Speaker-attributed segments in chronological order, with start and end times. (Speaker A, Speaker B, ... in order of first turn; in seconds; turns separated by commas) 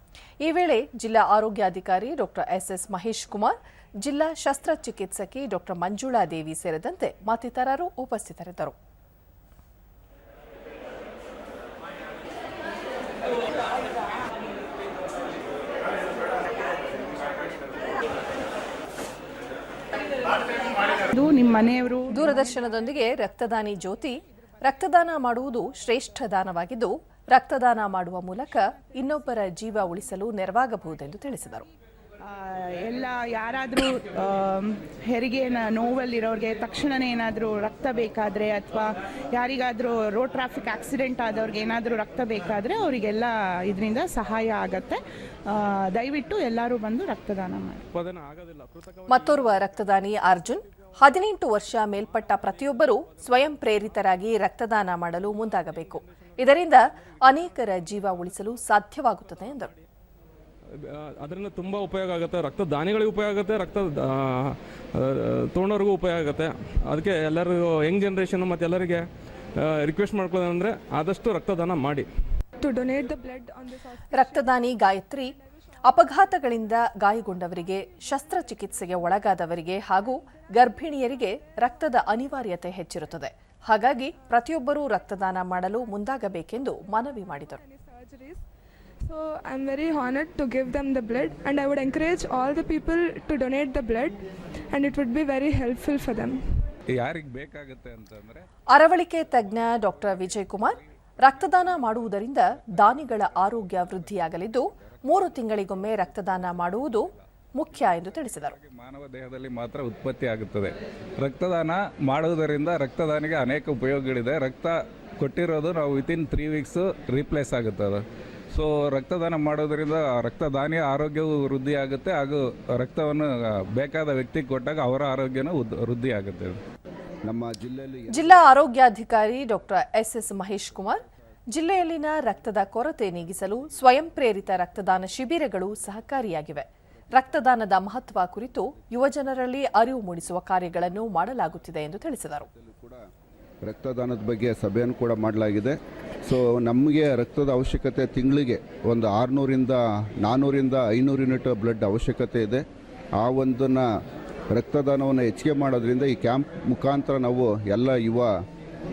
Speaker A: 0.4-8.7, Speaker B: 21.1-22.5, Speaker A: 22.1-31.6, Speaker B: 32.2-47.8, Speaker C: 47.9-49.7, Speaker A: 49.1-59.7, Speaker C: 60.8-72.1, Speaker D: 72.6-74.8, Speaker A: 74.1-75.3, Speaker A: 75.8-87.6, Speaker D: 87.2-88.4, Speaker D: 89.0-94.2, Speaker D: 94.7-96.4, Speaker E: 96.9-98.5, Speaker A: 98.7-108.5, Speaker E: 99.3-126.6, Speaker F: 127.2-128.3, Speaker A: 128.1-142.5, Speaker F: 142.5-143.1, Speaker F: 143.6-152.6, Speaker F: 153.2-153.9, Speaker F: 154.5-158.3